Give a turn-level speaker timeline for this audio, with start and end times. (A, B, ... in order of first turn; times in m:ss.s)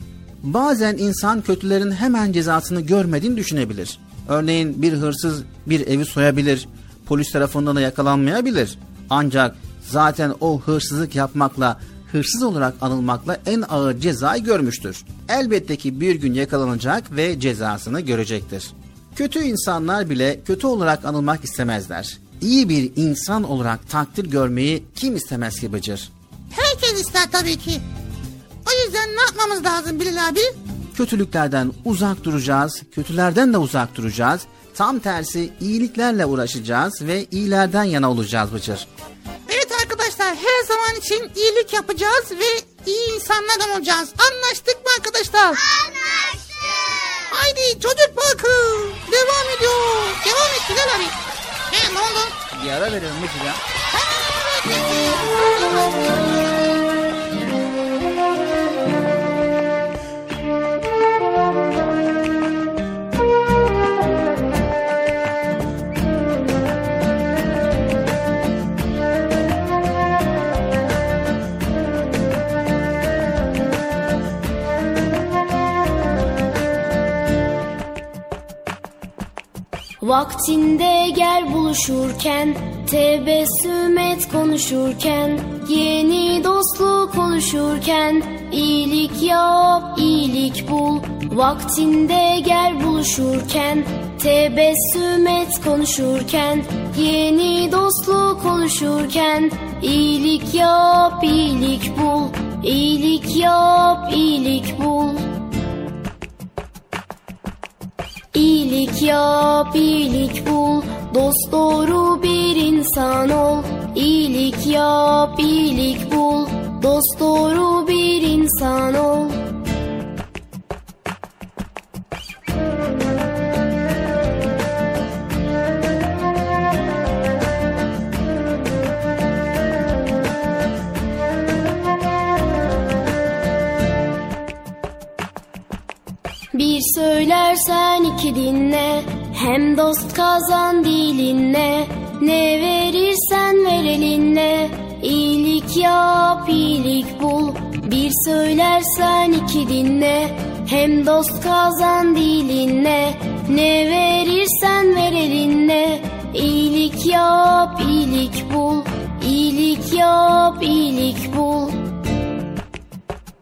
0:00.4-0:26.1 A
0:26.5-0:27.8 B
0:28.6-0:30.5 B
0:30.9-0:38.9 A
0:39.5-0:45.6 B
0:47.3-0:51.2 B
0:51.7-0:52.3 B
0:52.5-0:53.6 A
0:53.9-0:56.4 B
1:20.0-1:45.2 C
1:48.3-1:59.4 C
2:16.5-2:41.8 C